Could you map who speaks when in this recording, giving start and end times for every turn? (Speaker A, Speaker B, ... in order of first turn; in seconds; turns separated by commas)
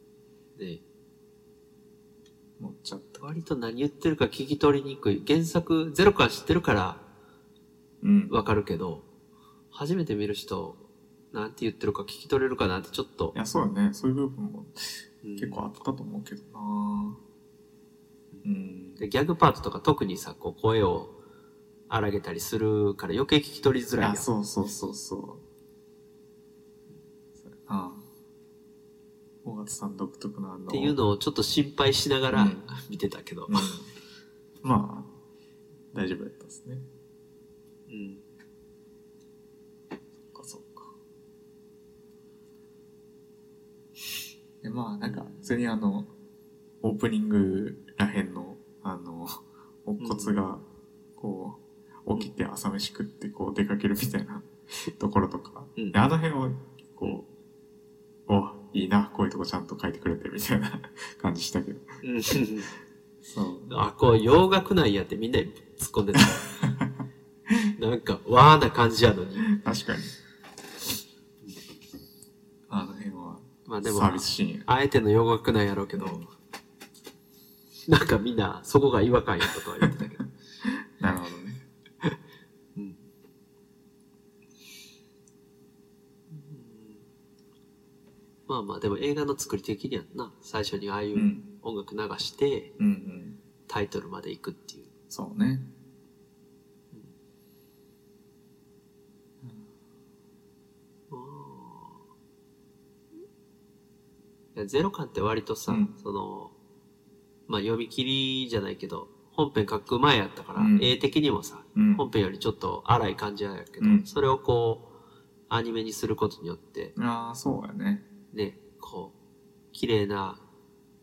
Speaker A: 0.6-0.8, Speaker B: 2.6-3.2, Speaker A: 3.2-7.0, Speaker B: 8.0-8.4, Speaker A: 8.3-9.1, Speaker A: 9.7-13.3, Speaker B: 13.3-17.2, Speaker A: 15.2-15.6, Speaker B: 18.4-19.0, Speaker A: 19.0-21.1, Speaker A: 21.9-24.3, Speaker B: 24.0-25.4, Speaker B: 27.4-28.1, Speaker B: 29.4-31.0, Speaker A: 30.7-33.7, Speaker B: 32.3-32.7, Speaker B: 33.5-33.9, Speaker B: 34.6-35.1, Speaker B: 35.9-36.9, Speaker A: 37.9-38.2, Speaker B: 40.3-40.9, Speaker B: 44.6-46.1, Speaker A: 45.0-45.5, Speaker B: 46.8-50.6, Speaker A: 50.0-50.4, Speaker B: 51.2-57.3, Speaker B: 58.3-61.9, Speaker A: 62.0-62.7, Speaker B: 63.2-63.7, Speaker A: 63.7-66.5, Speaker B: 66.6-67.0, Speaker A: 67.8-69.5, Speaker B: 69.5-70.1, Speaker B: 72.7-74.7, Speaker A: 73.7-76.3, Speaker B: 76.0-76.3, Speaker A: 77.9-80.3, Speaker B: 80.6-81.6, Speaker A: 82.8-83.0, Speaker A: 86.3-87.1, Speaker A: 88.5-92.7, Speaker B: 91.1-91.5, Speaker B: 92.8-93.4, Speaker A: 93.7-94.9, Speaker B: 95.1-95.7, Speaker B: 99.4-99.7, Speaker A: 101.1-102.0, Speaker A: 104.5-106.5, Speaker B: 105.7-105.9, Speaker A: 107.5-114.9, Speaker B: 110.6-110.9, Speaker B: 111.8-112.1, Speaker B: 113.8-114.1, Speaker A: 115.5-116.9, Speaker B: 117.0-118.1, Speaker A: 118.3-119.2, Speaker A: 119.7-120.4